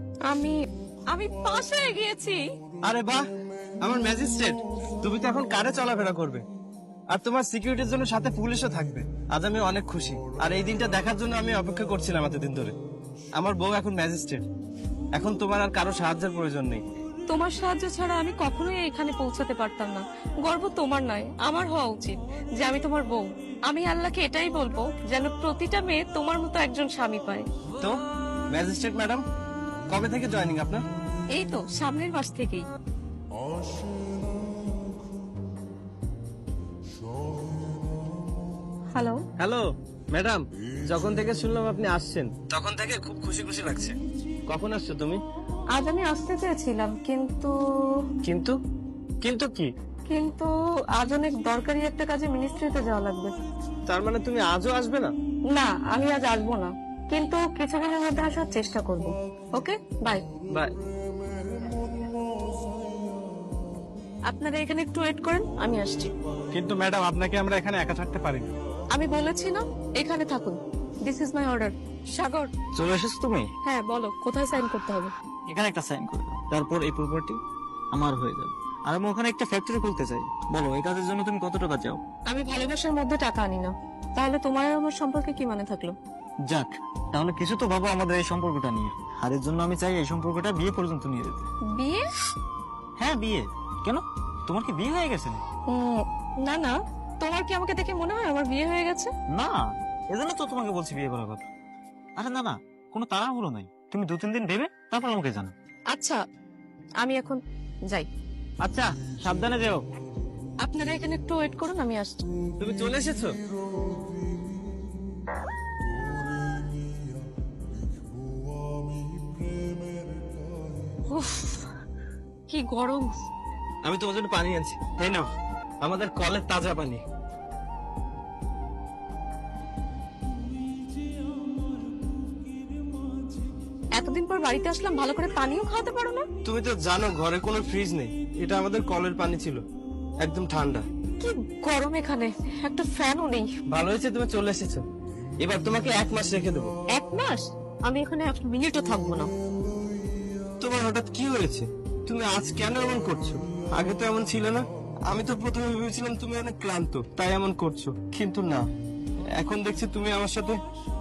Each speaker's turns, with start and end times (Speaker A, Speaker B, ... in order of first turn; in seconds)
Speaker A: 0.3-0.6, 1.1-2.4, 17.3-27.4, 31.3-32.7, 38.9-39.2, 45.7-47.9, 50.1-53.3, 55.5-60.2, 64.3-66.1, 68.9-72.5, 73.6-75.1, 82.3-86.0, 91.7-92.0, 95.7-99.1, 105.9-106.2, 107.0-108.1, 110.6-112.2, 121.1-121.7, 122.5-123.2, 134.0-136.2, 141.2-143.5, 146.9-149.3
Speaker B: 2.8-3.2, 3.8-6.4, 7.1-12.7, 13.4-14.4, 15.1-16.8, 28.5-29.2, 29.9-30.8, 39.4-44.0, 44.5-45.2, 48.2-48.6, 49.2-49.7, 53.9-55.1, 66.5-68.5, 112.6-113.3, 123.8-125.3, 125.8-127.0, 136.4-139.6, 140.2-140.8, 143.7-144.8, 145.4-146.7, 150.6-158.7, 159.4-160.6
Speaker C: 72.8-73.5, 75.5-77.4, 77.9-82.0, 86.5-91.5, 93.0-95.4, 99.3-101.4, 102.2-105.5, 108.6-109.8